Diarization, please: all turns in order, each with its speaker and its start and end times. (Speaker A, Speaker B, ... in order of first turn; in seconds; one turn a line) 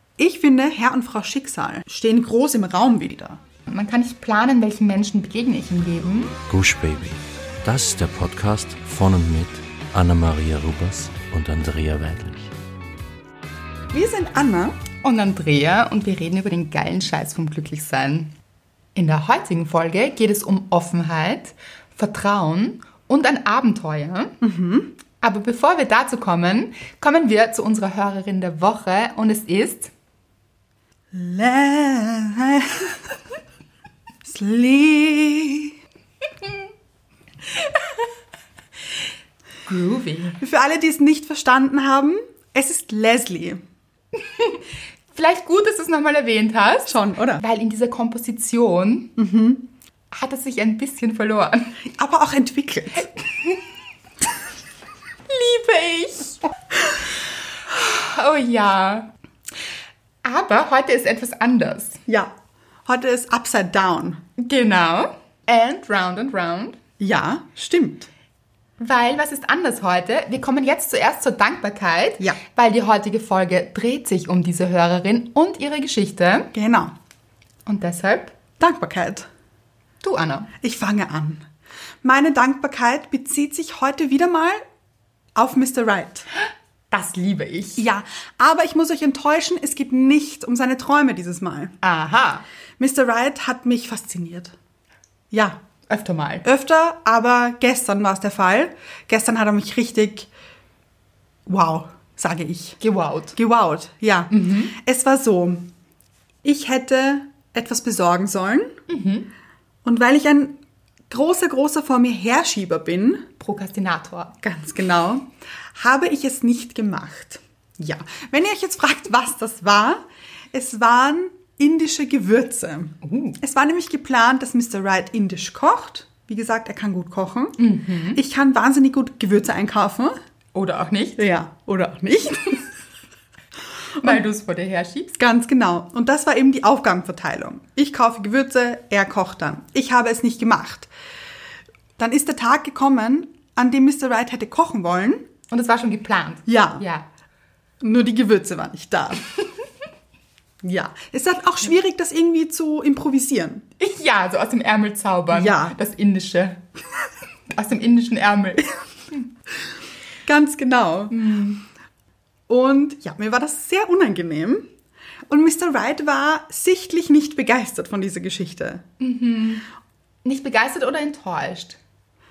Speaker A: 0.2-3.4
Speaker B: 3.7-6.4
Speaker C: 6.5-12.5
Speaker A: 13.9-14.8
Speaker B: 15.0-18.3
Speaker B: 18.9-24.3
Speaker A: 24.4-24.9
Speaker B: 25.2-29.9
Speaker A: 31.1-33.2
Speaker A: 34.2-35.7
Speaker B: 39.7-40.4
Speaker A: 40.4-43.6
Speaker B: 45.1-49.1
Speaker A: 46.9-47.4
Speaker A: 49.2-49.6
Speaker B: 50.1-51.8
Speaker A: 51.9-53.1
Speaker B: 55.3-56.4
Speaker B: 57.7-59.1
Speaker B: 60.2-62.0
Speaker A: 62.8-64.2
Speaker B: 64.4-66.8
Speaker A: 67.0-68.1
Speaker B: 68.8-76.5
Speaker A: 76.5-76.9
Speaker B: 77.7-78.3
Speaker A: 78.6-79.3
Speaker B: 80.0-80.5
Speaker A: 80.6-81.4
Speaker A: 82.0-84.6
Speaker A: 85.3-86.3
Speaker B: 86.9-87.8
Speaker A: 87.8-91.7
Speaker B: 91.8-92.4
Speaker A: 92.8-94.5
Speaker A: 95.3-95.6
Speaker B: 95.9-96.4
Speaker A: 96.4-100.3
Speaker A: 101.5-102.8
Speaker B: 102.8-103.3
Speaker A: 103.3-105.7
Speaker B: 104.3-104.7
Speaker A: 106.4-108.8
Speaker B: 108.9-109.3
Speaker A: 109.8-110.6
Speaker A: 111.1-113.3
Speaker B: 113.4-114.3
Speaker A: 114.4-127.6
Speaker B: 123.0-123.4
Speaker B: 127.6-128.2
Speaker A: 128.1-130.1
Speaker B: 130.5-131.2
Speaker A: 131.2-132.7
Speaker B: 134.0-135.2
Speaker A: 135.2-140.9
Speaker A: 142.0-145.2
Speaker B: 145.5-147.1
Speaker A: 146.5-146.8
Speaker A: 147.8-149.2
Speaker A: 150.6-153.6
Speaker B: 153.8-156.6
Speaker A: 155.3-155.8
Speaker B: 157.5-159.2
Speaker A: 160.2-161.2
Speaker B: 161.1-161.6
Speaker A: 162.5-164.6
Speaker A: 165.3-168.8
Speaker B: 169.0-169.6
Speaker B: 170.2-171.8